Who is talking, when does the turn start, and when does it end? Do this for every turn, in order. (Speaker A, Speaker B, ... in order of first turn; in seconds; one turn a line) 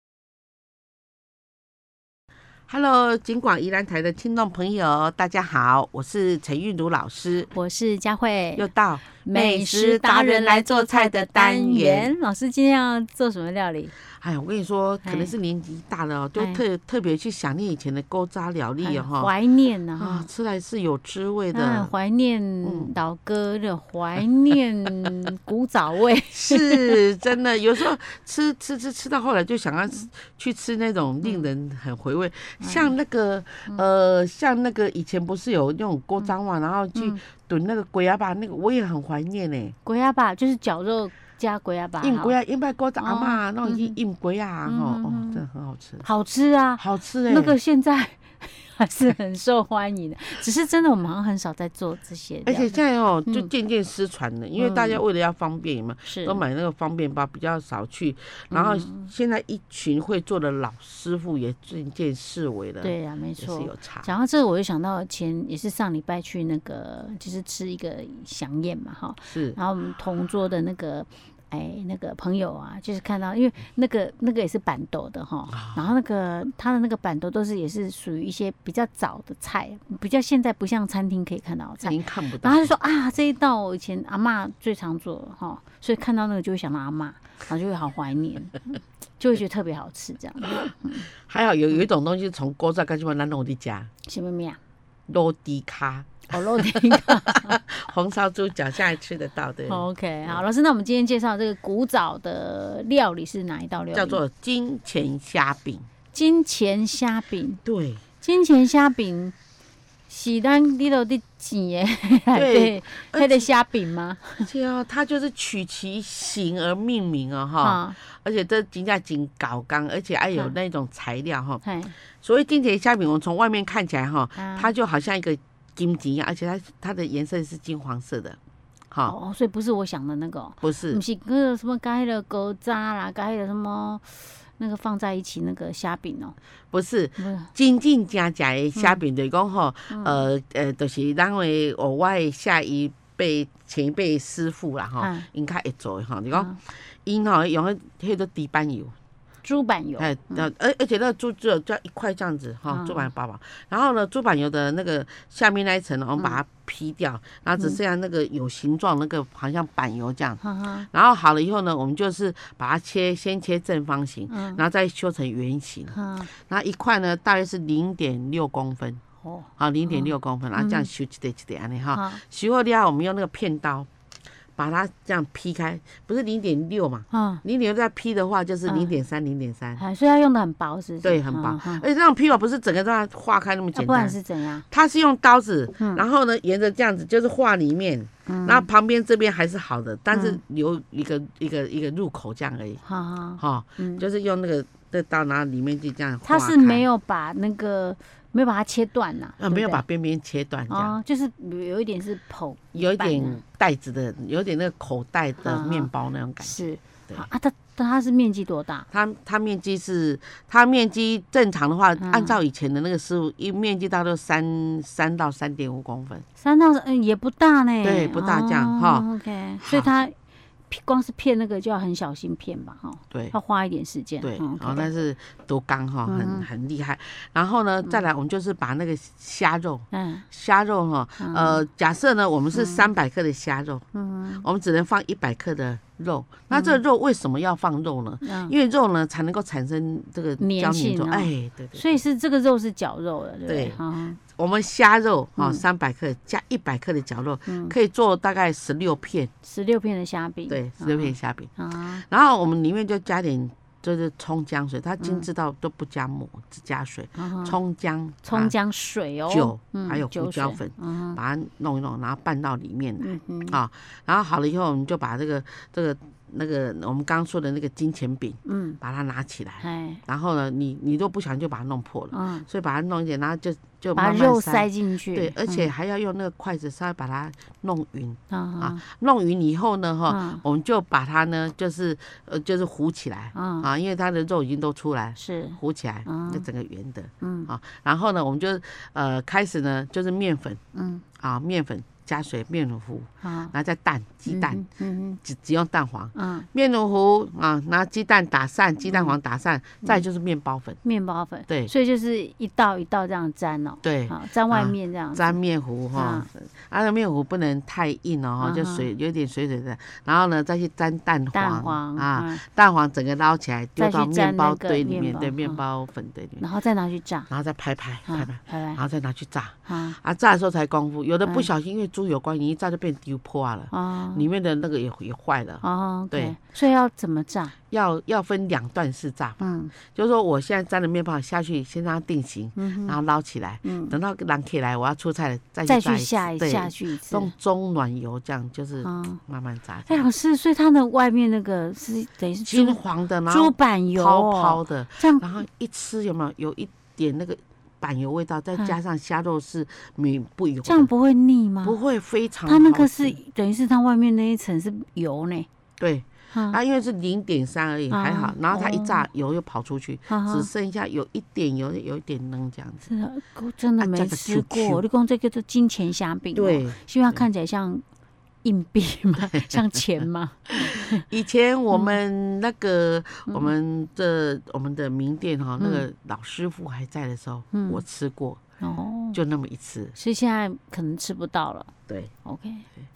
Speaker A: 2.7-7.5
Speaker B: 7.5-13.9
Speaker A: 8.6-12.1
Speaker A: 14.1-19.3
Speaker B: 15.0-15.3
Speaker B: 16.4-16.6
Speaker B: 18.8-20.3
Speaker A: 20.0-21.9
Speaker B: 21.5-27.0
Speaker A: 22.6-22.9
Speaker A: 26.3-39.8
Speaker B: 31.2-31.5
Speaker B: 32.6-32.9
Speaker B: 37.0-37.2
Speaker B: 39.9-42.4
Speaker A: 42.0-46.1
Speaker B: 43.0-44.0
Speaker B: 44.7-45.4
Speaker B: 46.0-53.5
Speaker A: 46.8-47.6
Speaker A: 52.5-64.1
Speaker B: 54.6-55.0
Speaker B: 56.0-56.4
Speaker B: 58.5-59.1
Speaker B: 62.8-91.1
Speaker A: 69.3-69.6
Speaker A: 75.5-75.9
Speaker A: 81.8-82.7
Speaker A: 90.4-90.7
Speaker A: 91.2-93.9
Speaker B: 94.0-94.6
Speaker A: 95.1-100.4
Speaker B: 96.3-97.6
Speaker B: 99.7-104.2
Speaker A: 103.9-105.9
Speaker B: 106.1-107.6
Speaker A: 107.7-108.0
Speaker B: 108.2-109.3
Speaker B: 110.1-114.5
Speaker A: 112.3-113.5
Speaker A: 114.4-121.6
Speaker B: 117.6-118.0
Speaker B: 121.6-122.0
Speaker A: 122.2-128.4
Speaker B: 124.3-124.7
Speaker B: 129.1-136.4
Speaker A: 130.6-131.0
Speaker A: 136.7-148.9
Speaker B: 137.2-137.5
Speaker B: 139.9-140.3
Speaker B: 145.0-145.3
Speaker B: 146.3-146.6
Speaker B: 149.4-150.5
Speaker A: 150.0-169.0
Speaker B: 152.7-153.1
Speaker B: 160.4-160.9
Speaker B: 164.3-164.6
Speaker B: 165.9-166.3
Speaker B: 169.2-170.9
Speaker A: 169.6-173.9
Speaker B: 171.9-172.2
Speaker A: 174.6-179.8
Speaker B: 177.1-177.4
Speaker B: 178.7-178.9
Speaker B: 179.8-181.9
Speaker A: 181.0-184.2
Speaker B: 183.8-184.7
Speaker A: 184.7-192.8
Speaker B: 185.8-186.0
Speaker B: 188.3-188.7
Speaker B: 190.1-190.4
Speaker B: 192.8-194.1
Speaker A: 193.4-196.8
Speaker B: 196.2-199.8
Speaker A: 199.4-201.0
Speaker B: 200.7-203.4
Speaker A: 202.7-207.3
Speaker B: 205.4-205.9
Speaker B: 206.4-208.9
Speaker A: 208.9-216.2
Speaker B: 212.0-212.4
Speaker B: 216.4-220.1
Speaker A: 217.8-219.1
Speaker A: 219.6-219.9
Speaker B: 220.7-224.9
Speaker A: 224.2-233.8
Speaker B: 226.1-226.5
Speaker B: 229.9-230.3
Speaker B: 231.2-231.6
Speaker B: 232.5-232.9
Speaker B: 233.9-234.5
Speaker A: 234.4-242.0
Speaker B: 236.5-236.8
Speaker B: 238.2-238.5
Speaker B: 240.4-244.2
Speaker A: 243.5-249.3
Speaker B: 245.4-245.6
Speaker B: 247.5-247.8
Speaker B: 249.4-252.0
Speaker A: 250.5-251.5
Speaker A: 252.1-258.6
Speaker B: 255.0-255.3
Speaker B: 257.2-257.6
Speaker B: 258.2-261.2
Speaker A: 259.3-290.6
Speaker B: 263.0-263.6
Speaker B: 268.5-268.8
Speaker B: 269.6-270.0
Speaker B: 272.1-272.5
Speaker B: 274.0-275.7
Speaker B: 278.3-278.8
Speaker B: 280.1-280.4
Speaker B: 283.4-283.7
Speaker B: 285.2-286.4
Speaker B: 287.2-287.5
Speaker B: 290.7-291.1
Speaker A: 291.2-294.6
Speaker B: 293.2-293.5
Speaker B: 294.3-295.2
Speaker A: 295.2-300.8
Speaker B: 296.1-296.5
Speaker B: 298.8-299.2
Speaker B: 300.8-305.4
Speaker A: 303.8-316.4
Speaker B: 305.9-306.3
Speaker B: 308.4-308.9
Speaker B: 311.3-312.4
Speaker B: 313.8-315.6
Speaker B: 316.4-317.3
Speaker A: 317.3-326.4
Speaker B: 318.1-318.8
Speaker B: 319.7-320.0
Speaker B: 323.7-324.3
Speaker B: 325.6-327.6
Speaker A: 327.7-340.1
Speaker B: 329.4-329.7
Speaker B: 332.6-333.0
Speaker B: 333.6-334.0
Speaker B: 335.6-337.3
Speaker B: 338.8-339.2
Speaker B: 339.9-345.3
Speaker A: 342.5-350.9
Speaker B: 350.6-351.8
Speaker A: 351.6-353.2
Speaker B: 352.5-355.5
Speaker A: 355.8-362.9
Speaker B: 356.3-356.6
Speaker B: 357.9-359.1
Speaker B: 360.1-360.5
Speaker B: 362.9-367.9
Speaker A: 363.8-364.8
Speaker A: 366.4-367.2
Speaker B: 368.4-371.1
Speaker A: 369.3-369.6
Speaker A: 370.5-378.4
Speaker B: 371.7-372.0
Speaker B: 373.3-373.5
Speaker B: 375.6-375.9
Speaker B: 377.5-377.8
Speaker B: 378.6-379.2
Speaker A: 379.1-379.9
Speaker B: 379.9-381.7
Speaker B: 382.2-382.7